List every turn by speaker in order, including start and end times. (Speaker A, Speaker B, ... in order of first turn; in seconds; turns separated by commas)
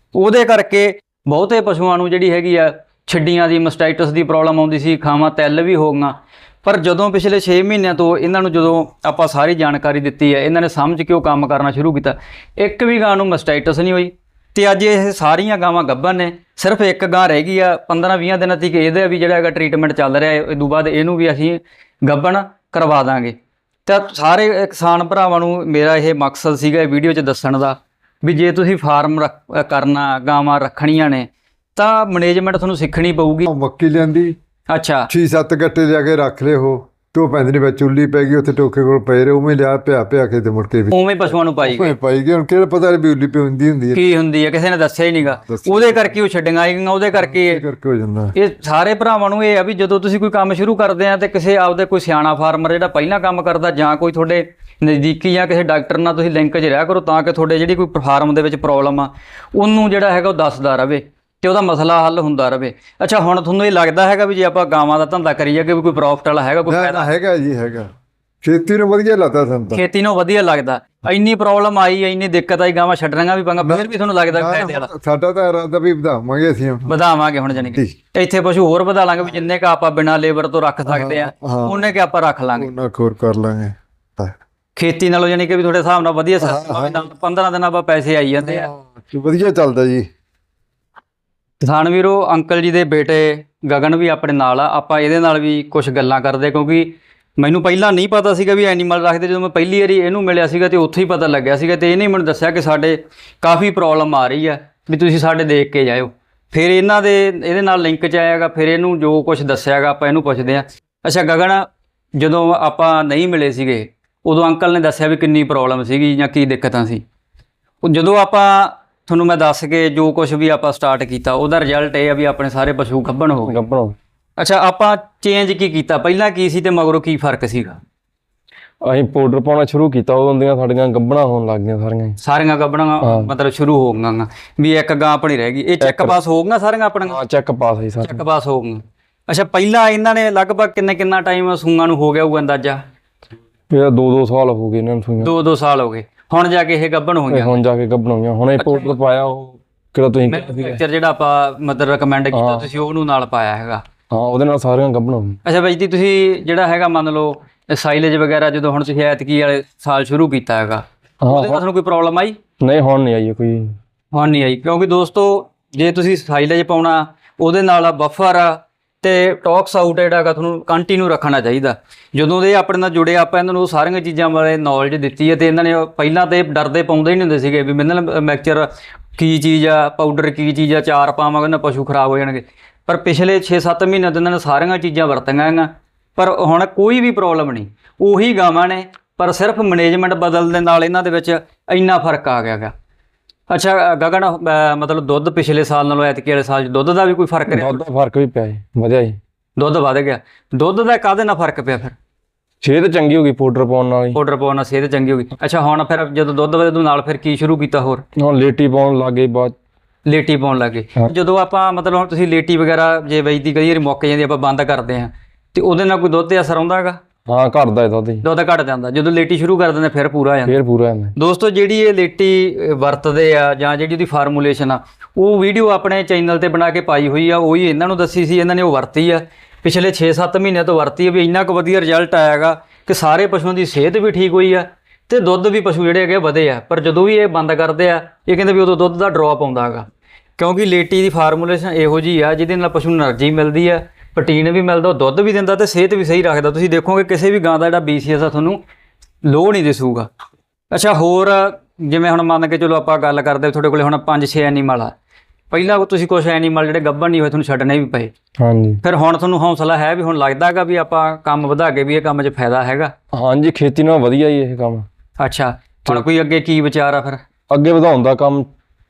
Speaker A: 0.1-33.5, Speaker B: 33.5-34.4, Speaker A: 34.7-35.1, Speaker B: 35.1-44.0, Speaker A: 40.9-41.9, Speaker A: 43.9-47.6, Speaker B: 45.3-46.1, Speaker B: 47.1-48.3, Speaker A: 48.3-67.1, Speaker B: 66.7-67.9, Speaker B: 68.4-69.8, Speaker A: 69.7-74.9, Speaker B: 73.6-76.9, Speaker A: 76.9-82.7, Speaker B: 77.6-77.9, Speaker B: 80.9-81.8, Speaker B: 82.6-84.3, Speaker A: 84.8-88.7, Speaker B: 86.4-87.0, Speaker B: 88.4-90.0, Speaker A: 91.6-111.7, Speaker A: 112.2-117.0, Speaker A: 117.8-123.6, Speaker C: 123.5-124.0, Speaker A: 124.4-127.8, Speaker C: 128.8-132.2, Speaker A: 132.2-137.2, Speaker C: 133.0-133.3, Speaker C: 135.8-136.2, Speaker C: 137.1-138.2, Speaker A: 138.0-142.8, Speaker C: 143.7-145.3, Speaker A: 145.2-147.6, Speaker C: 147.3-150.8, Speaker A: 148.6-148.9, Speaker A: 150.3-153.8, Speaker C: 152.3-152.7, Speaker C: 154.1-155.4, Speaker A: 155.4-162.4, Speaker C: 161.2-161.6, Speaker C: 162.6-163.7, Speaker A: 164.1-192.7, Speaker A: 193.5-197.8, Speaker C: 197.5-199.2, Speaker A: 199.6-201.9, Speaker C: 202.6-204.2, Speaker A: 204.1-208.0, Speaker C: 208.2-209.5, Speaker A: 210.1-217.0, Speaker C: 217.3-218.2, Speaker A: 218.2-220.6, Speaker C: 220.5-221.1, Speaker A: 221.2-239.8, Speaker A: 240.4-248.6, Speaker A: 249.2-250.1, Speaker A: 250.7-254.9, Speaker A: 255.5-258.1, Speaker C: 258.4-258.8, Speaker A: 258.8-262.9, Speaker C: 263.1-264.9, Speaker A: 265.2-267.2, Speaker C: 267.5-268.5